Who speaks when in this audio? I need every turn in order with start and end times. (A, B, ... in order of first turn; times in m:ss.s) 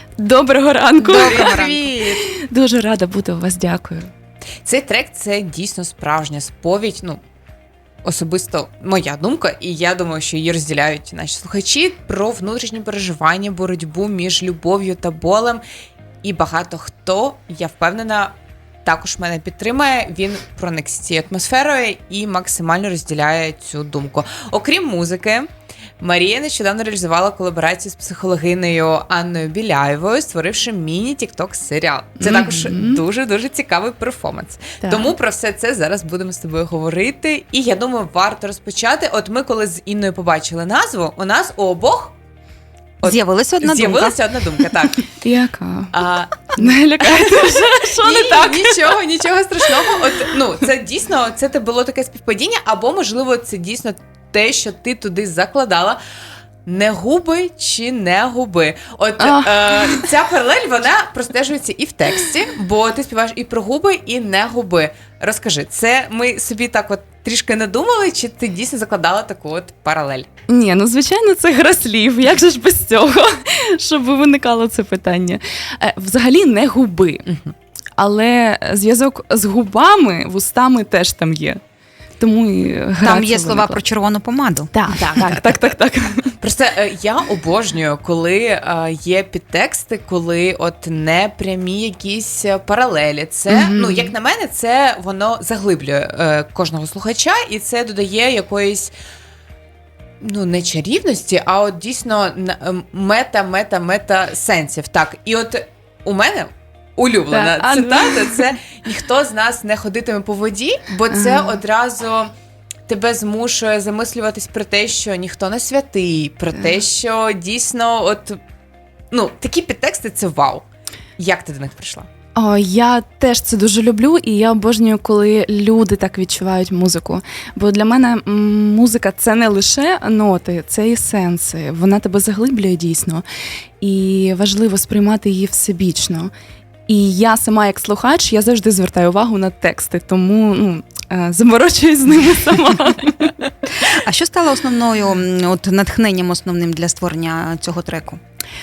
0:00.2-0:04.1 A
0:01.0-0:01.9 B
0:01.1-0:02.2 C
0:04.6-0:07.2 C
0:08.0-0:15.6 C
0:16.2-0:25.5 C
0:26.0-0:42.2 C
0:32.2-0:33.0 A
0:34.8-0:35.1 A
0:43.0-0:45.0 C
0:43.0-0:44.2 B
0:45.2-0:45.9 A
0:45.9-0:56.0 C
0:46.5-0:48.9 A
0:56.7-1:10.3 C
0:59.2-1:00.1 A
1:10.5-1:17.3 A
1:17.3-1:17.5 C
1:18.0-1:21.6 A
1:22.2-1:23.8 A
1:23.0-1:24.7 B
1:24.7-1:26.4 A
1:25.1-1:25.6 C
1:26.4-1:38.9 C
1:33.5-1:34.1 A
1:40.2-1:52.3 C
1:47.3-1:48.5 A
1:51.1-1:51.6 A
1:52.9-1:58.4 C
1:56.6-1:56.8 A
1:59.1-2:00.6 C
2:01.2-2:02.1 C
2:02.4-2:13.2 A
2:13.8-2:16.3 A
2:16.9-2:23.4 A
2:23.8-2:28.2 B